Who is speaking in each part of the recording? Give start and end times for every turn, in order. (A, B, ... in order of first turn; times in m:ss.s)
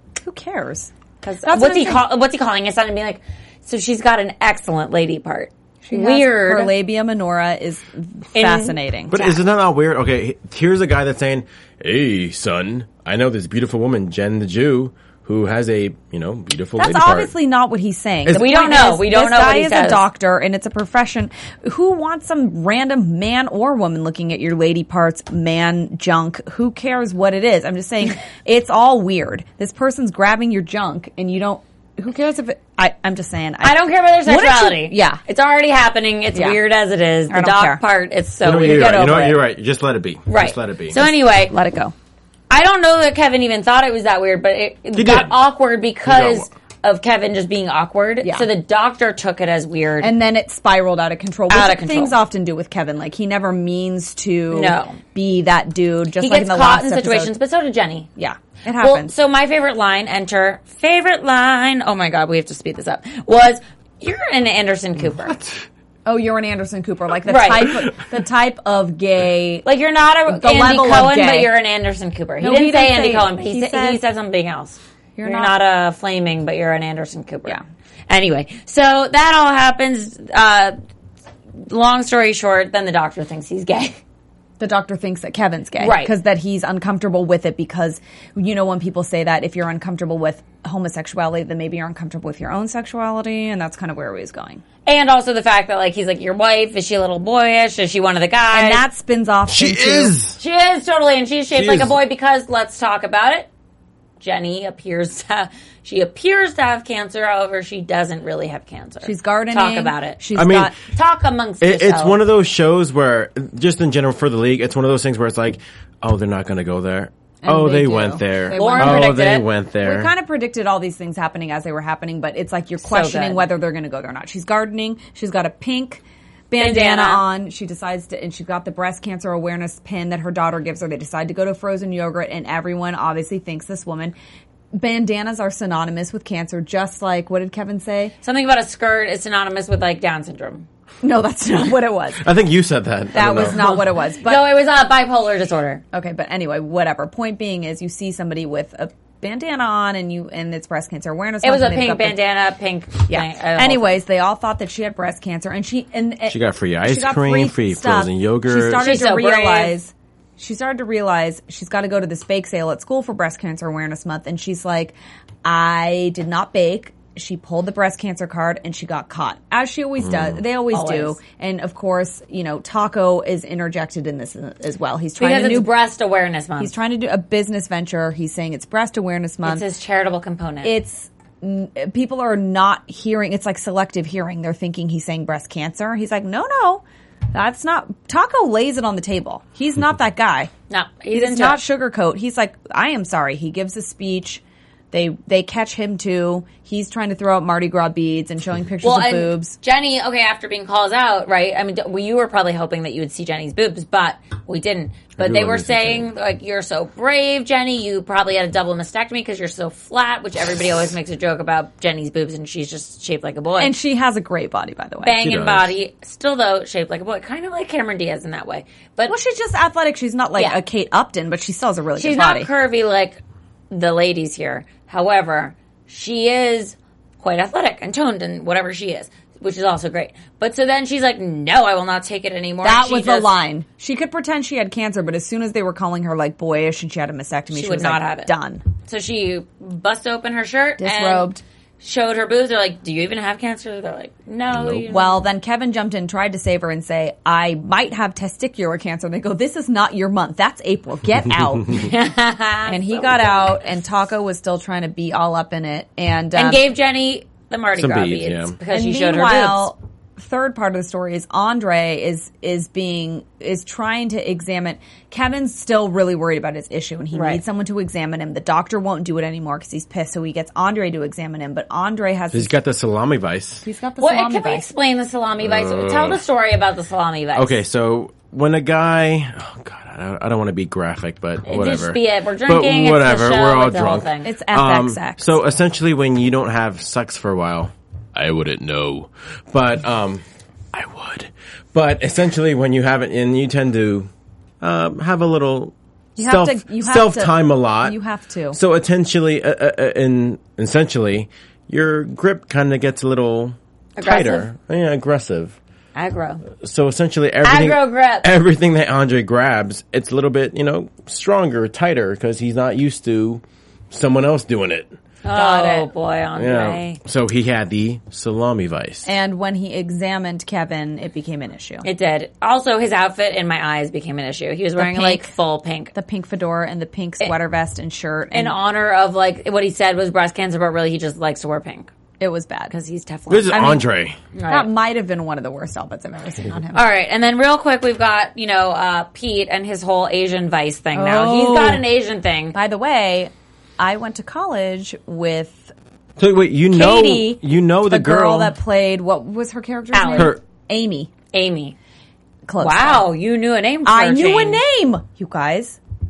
0:00.2-0:00.9 A
0:01.2-0:06.8 B
0:01.4-0:02.1 A
0:05.8-0:09.4 A
0:08.4-0:08.8 B
0:09.1-0:17.3 C
0:16.8-0:35.2 A
0:18.3-0:20.0 B
0:33.6-0:39.4 B
0:36.3-0:36.6 A
0:37.3-0:37.8 A
0:38.4-0:41.0 C
0:40.3-0:41.6 B
0:41.0-0:41.9 A
0:42.5-0:50.2 B
0:44.9-0:45.4 C
0:46.1-0:46.5 C
0:48.2-0:48.5 A
0:50.0-0:57.4 A
0:51.5-0:52.2 B
0:54.5-0:55.0 B
0:56.2-0:58.1 B
0:58.2-0:59.1 A
0:58.8-1:05.4 B
1:06.1-1:09.7 A
1:07.3-1:07.8 B
1:09.6-1:20.8 B
1:10.3-1:11.5 A
1:12.4-1:14.0 A
1:15.2-1:15.5 A
1:21.6-1:24.0 B
1:24.6-1:34.6 A
1:25.8-1:26.2 B
1:34.8-1:38.8 B
1:38.5-1:40.2 A
1:39.5-1:40.4 C
1:40.4-1:43.5 B
1:41.5-1:42.0 C
1:44.2-1:50.2 B
1:49.0-1:50.8 A
1:50.4-1:50.7 C
1:50.9-1:52.2 B
1:51.6-2:00.1 C
1:57.4-1:59.2 A
1:58.5-1:59.5 B
1:59.8-2:14.2 A
2:02.8-2:03.5 B
2:06.6-2:07.2 B
2:14.8-2:18.1 A
2:18.2-2:20.7 B
2:21.0-2:22.2 A
2:22.2-2:23.8 C
2:23.1-2:24.6 A
2:23.5-2:25.8 B
2:25.9-2:32.2 A
2:31.4-2:34.0 B
2:33.1-2:55.8 A
2:36.3-2:39.0 C
2:38.8-2:39.8 B
2:50.0-2:50.4 C
2:50.7-2:51.2 B
2:55.2-2:56.8 B
2:56.6-2:59.7 A
2:59.4-3:00.8 B
3:00.6-3:10.5 A
3:10.7-3:11.6 B
3:11.1-3:19.6 A
3:18.8-3:33.8 B
3:25.2-3:26.1 C
3:33.6-3:35.2 A
3:35.0-3:39.2 B
3:35.2-3:35.8 C
3:39.1-3:42.5 A
3:42.0-3:53.4 B
3:52.6-3:58.6 A
3:57.5-3:58.3 B
3:58.8-4:05.3 B
4:00.8-4:01.4 A
4:04.5-4:04.8 C
4:04.9-4:11.9 A
4:11.7-4:13.6 B
4:12.7-4:16.7 A
4:16.3-4:19.7 B
4:17.8-4:18.6 C
4:18.7-4:32.6 A
4:27.1-4:27.4 B
4:32.3-4:33.6 C
4:33.6-4:34.7 A
4:34.0-4:37.6 B
4:35.4-4:36.2 C
4:37.4-4:54.1 C
4:41.5-4:44.3 B
4:44.2-4:45.4 A
4:54.6-4:58.0 C
4:56.2-4:58.6 A
4:58.5-5:05.6 C
5:04.0-5:04.5 B
5:06.0-5:06.4 B
5:06.6-5:19.1 C
5:07.4-5:08.3 B
5:15.2-5:17.0 B
5:19.0-5:21.9 A
5:21.8-5:25.9 B
5:24.8-5:25.3 A
5:25.9-5:28.6 A
5:28.3-5:31.9 B
5:32.2-5:32.7 A
5:32.7-5:33.8 B
5:33.3-5:34.2 C
5:33.5-5:33.8 A
5:34.3-5:34.7 B
5:34.5-5:36.8 A
5:36.7-5:42.6 B
5:40.9-5:41.9 A
5:42.5-5:45.7 A
5:46.2-5:48.6 C
5:46.7-5:51.1 A
5:49.9-5:50.4 B
5:50.1-5:50.4 C
5:51.3-5:51.8 B
5:52.5-5:53.1 A
5:52.6-5:54.6 B
5:53.8-5:55.8 A